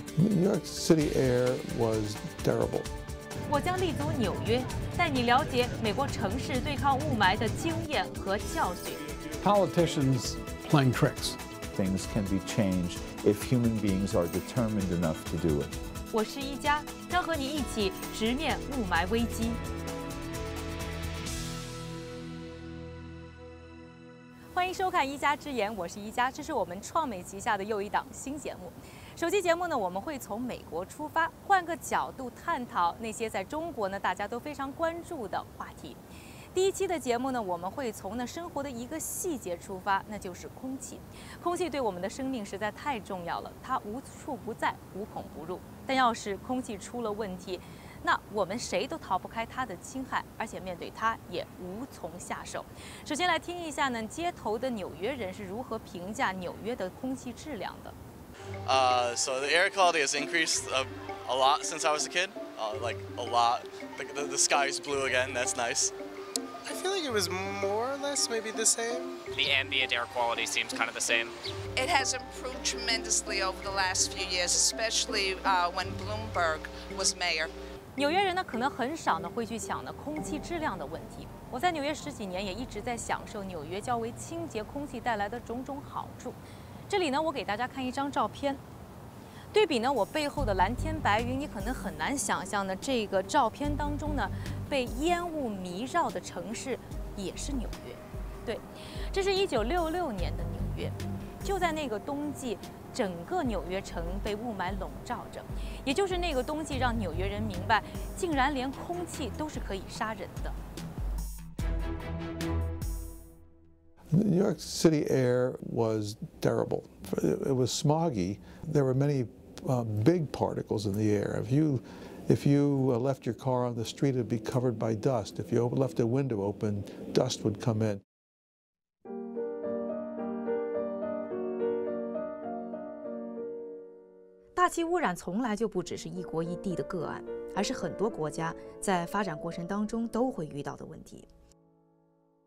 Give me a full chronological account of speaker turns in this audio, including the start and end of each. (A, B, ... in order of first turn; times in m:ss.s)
0:00.2-0:02.9 A
0:03.5-0:09.0 B
0:09.4-0:11.4 C
0:11.7-0:15.8 D
0:16.1-0:19.6 B
0:24.5-0:36.0 B
0:36.5-0:57.9 B
0:58.6-1:05.9 E
1:06.6-1:09.2 F
1:09.3-1:11.4 G
1:11.8-1:17.5 H
1:18.0-1:28.6 B
1:29.5-1:50.6 B
1:54.1-2:08.0 A
2:14.6-2:21.3 B